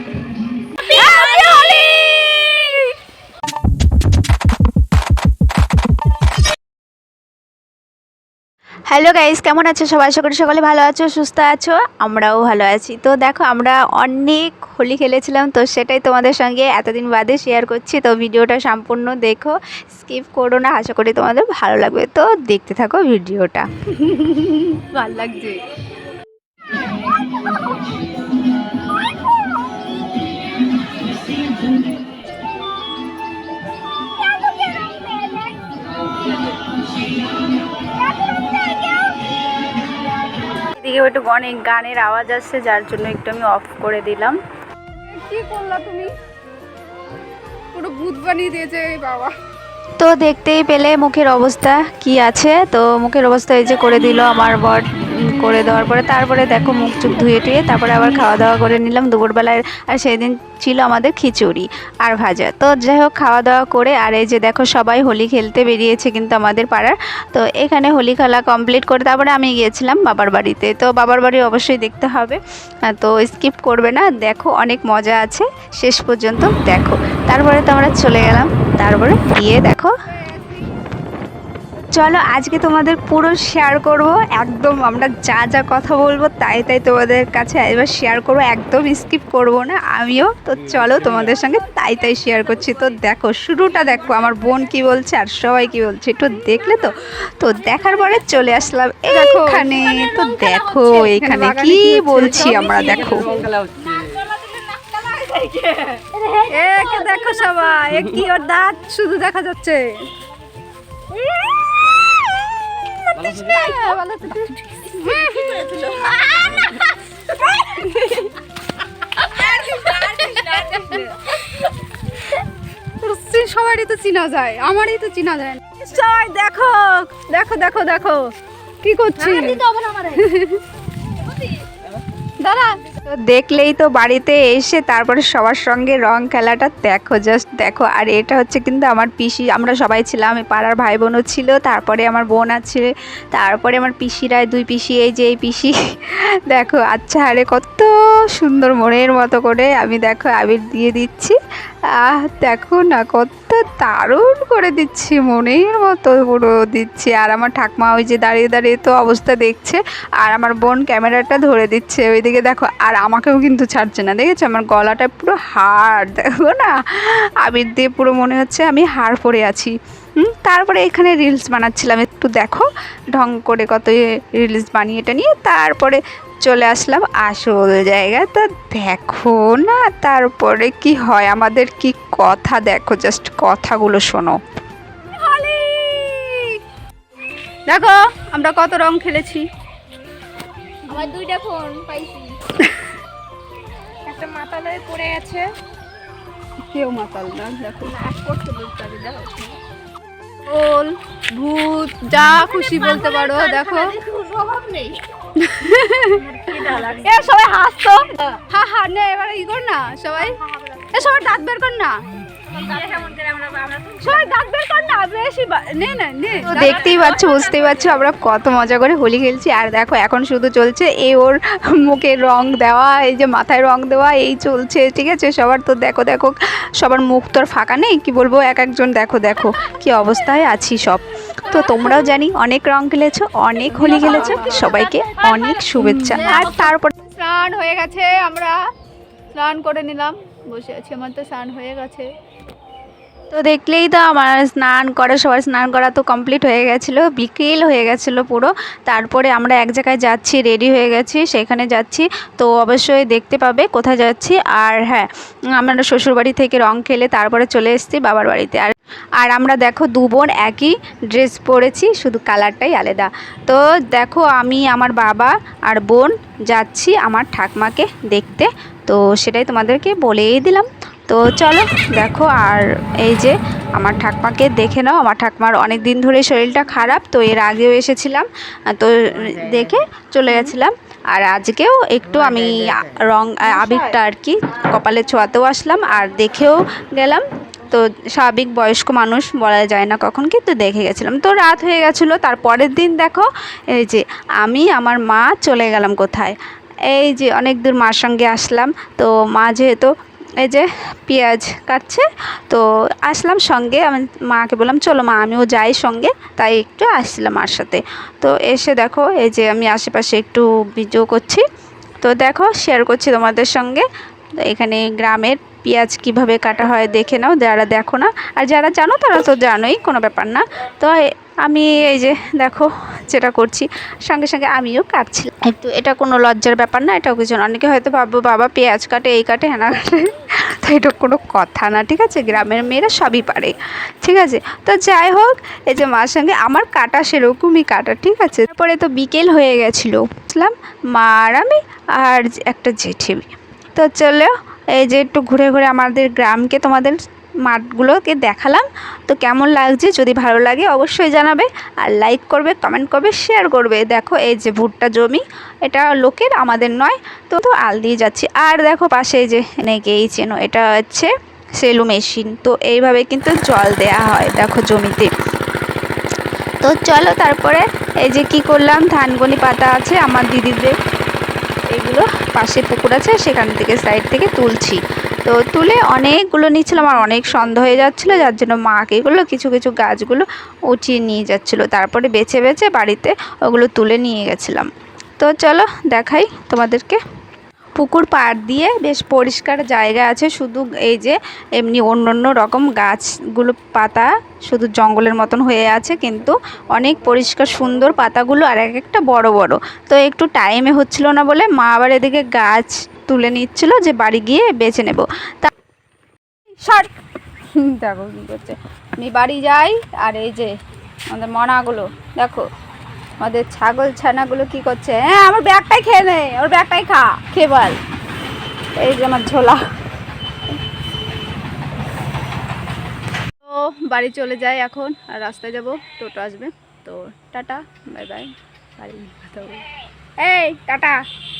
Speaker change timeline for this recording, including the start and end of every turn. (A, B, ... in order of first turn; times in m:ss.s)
0:00.8-0:02.9 A
0:01.0-0:01.8 B
0:08.9-0:23.7 B
0:24.1-0:25.6 A
0:34.7-0:35.1 A
0:40.8-0:44.4 B
0:45.0-0:46.1 A
0:47.7-0:49.3 A
0:50.0-1:19.9 B
1:21.9-1:43.4 B
1:39.1-1:40.0 A
1:40.0-1:40.2 C
1:40.5-1:43.4 A
1:43.4-1:47.6 C
1:46.5-1:49.8 A
1:53.1-1:56.8 A
1:55.0-1:56.6 C
1:57.5-1:58.3 A
1:59.2-2:01.0 A
1:59.4-2:01.1 C
2:03.0-2:08.2 A
2:08.8-2:09.6 A
2:09.2-2:10.2 C
2:10.1-2:10.6 A
2:12.4-2:12.8 A
2:13.0-2:31.4 B
2:31.9-3:04.4 B
3:05.1-3:06.6 A
3:07.7-3:09.4 A
3:10.9-3:12.4 C
3:14.0-3:15.5 C
3:16.7-3:18.0 A
3:17.8-3:19.6 C
3:20.5-3:24.0 A
3:22.5-3:25.0 C
3:25.4-3:26.2 A
3:26.2-3:27.1 C
3:26.7-3:30.4 A
3:30.4-3:30.9 C
3:30.9-3:32.0 A
3:32.5-3:34.2 C
3:34.0-3:37.0 A
3:36.4-3:56.9 B
3:36.9-3:37.8 C
3:53.8-3:54.7 A
3:54.6-3:55.6 C
3:55.8-3:58.5 A
3:59.3-4:02.1 A
4:03.3-4:56.3 B
4:56.9-4:59.9 B
5:00.4-5:11.4 B
5:12.0-5:13.8 B
5:14.4-6:05.1 B
6:06.6-6:10.7 B
6:11.7-6:27.0 B
6:17.2-6:18.0 A
6:27.8-6:45.5 B
6:47.8-6:50.5 B
6:51.1-6:52.4 B
6:53.2-6:57.8 B
6:58.8-6:59.6 B
7:03.4-7:09.6 A
7:10.2-7:11.0 A